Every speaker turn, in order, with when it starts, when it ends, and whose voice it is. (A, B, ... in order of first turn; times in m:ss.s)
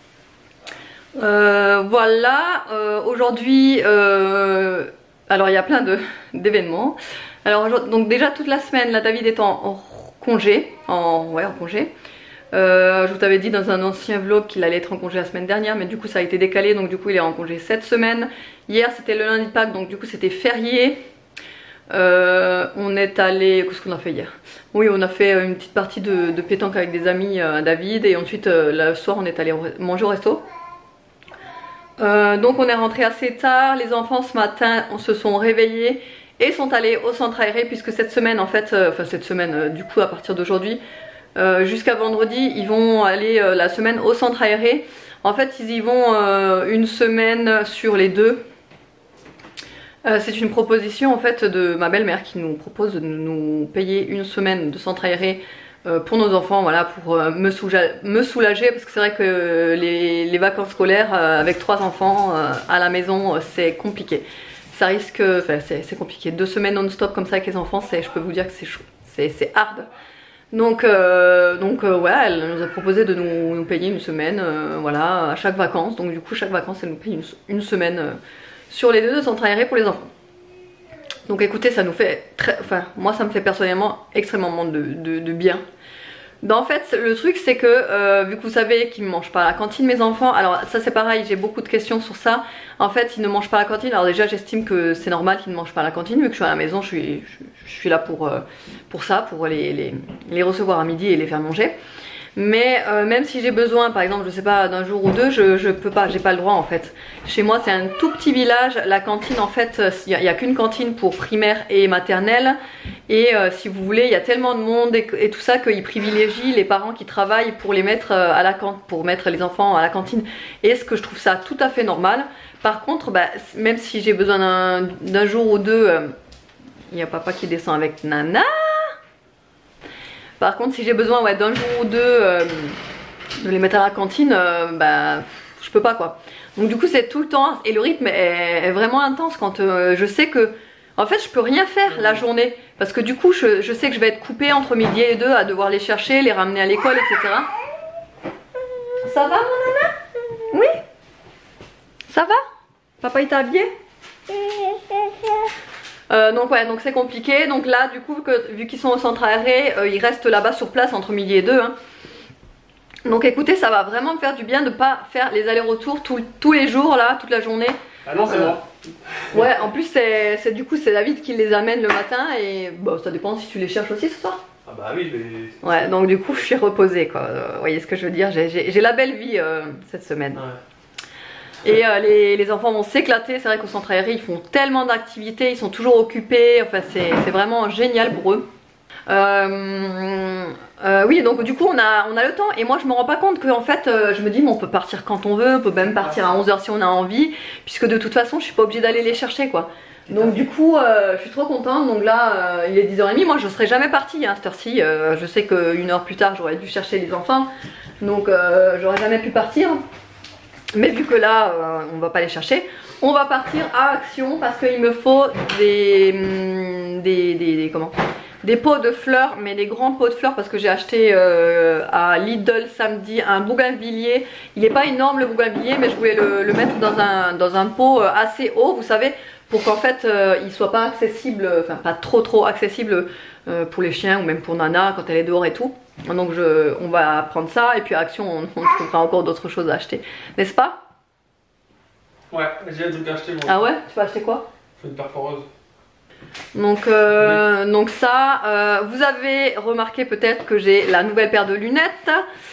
0:01.2-0:11.9 A
0:12.5-0:21.0 A
0:21.9-0:30.4 A
0:32.0-0:40.8 A
0:41.4-0:48.4 A
0:50.0-1:09.9 A
1:10.5-1:18.2 A
1:18.7-1:20.1 A
1:21.3-1:25.6 A
1:26.4-1:41.7 A
1:42.4-1:52.6 A
1:53.1-2:06.1 A
2:06.9-2:09.0 A
2:10.4-2:12.8 A
2:13.4-2:27.5 A
2:29.0-2:30.0 A
2:30.5-2:30.8 A
2:32.1-2:32.4 A
2:33.0-2:33.7 A
2:36.1-2:41.7 A
2:43.0-2:48.6 A
2:48.0-2:49.7 B
2:49.3-2:54.4 A
2:54.6-2:55.8 B
2:55.6-3:00.4 A
3:01.6-3:08.4 A
3:09.1-3:29.8 A
3:30.7-4:00.8 A
4:02.3-4:03.7 B
4:03.4-4:04.4 A
4:04.8-4:05.5 B
4:06.5-4:12.2 A
4:07.2-4:07.4 B